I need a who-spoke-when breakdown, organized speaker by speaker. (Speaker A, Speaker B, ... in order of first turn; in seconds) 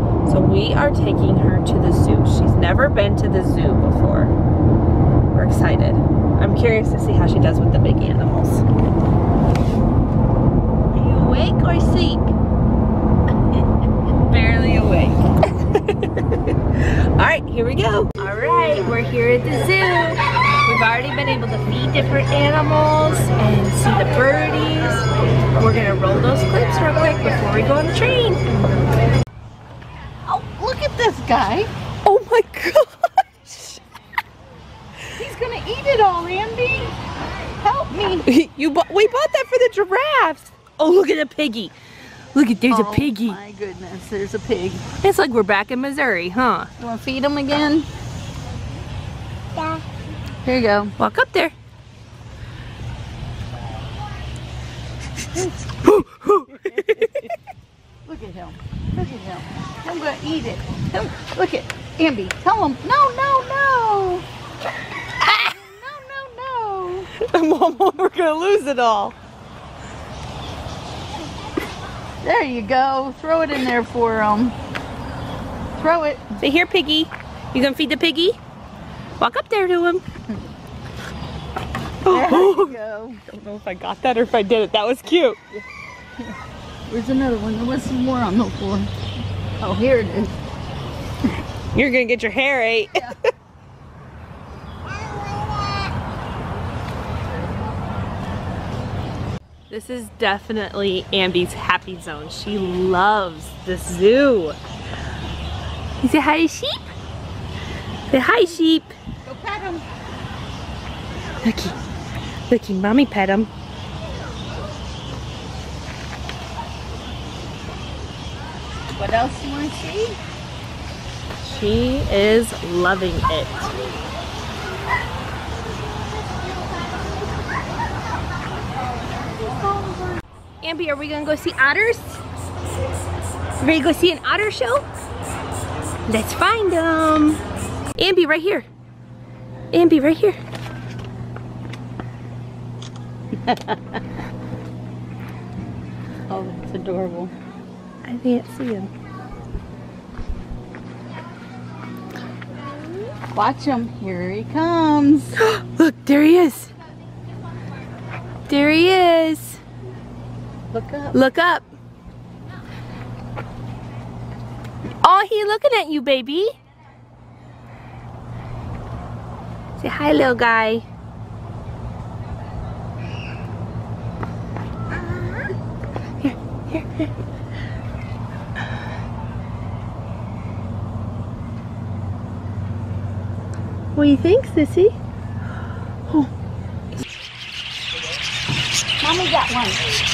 Speaker A: 0.3-4.3, 5.3-8.6, 10.9-12.3, 14.2-28.4, 32.0-33.8, 38.2-41.7, 42.3-43.4, 45.0-46.7, 49.6-49.8, 51.0-51.5, 55.8-57.3, 67.2-69.2, 76.4-78.4, 79.2-80.0, 82.0-85.6, 91.7-93.3, 99.7-104.6, 106.0-106.9, 108.1-109.0, 111.4-111.8, 112.5-113.5, 121.4-123.8, 130.6-132.2, 133.6-134.9, 136.1-137.4, 138.0-138.7, 139.7-140.4, 148.0-148.9, 155.4-156.7, 158.5-159.6, 161.1-161.7, 165.0-166.5, 169.8-170.8, 175.0-175.4, 176.2-177.1, 184.0-184.9
Speaker B: 30.3-31.7, 35.2-37.0, 37.6-38.3, 42.7-44.8, 46.8-47.9, 50.5-50.9, 56.6-57.3, 58.1-64.3, 65.2-67.1, 72.2-74.5, 75.8-76.3, 82.1-83.2, 86.9-88.9, 89.6-90.3, 109.2-109.9, 118.9-120.2, 143.5-143.8, 146.3-147.3, 153.3-155.4, 160.7-161.2, 189.0-189.9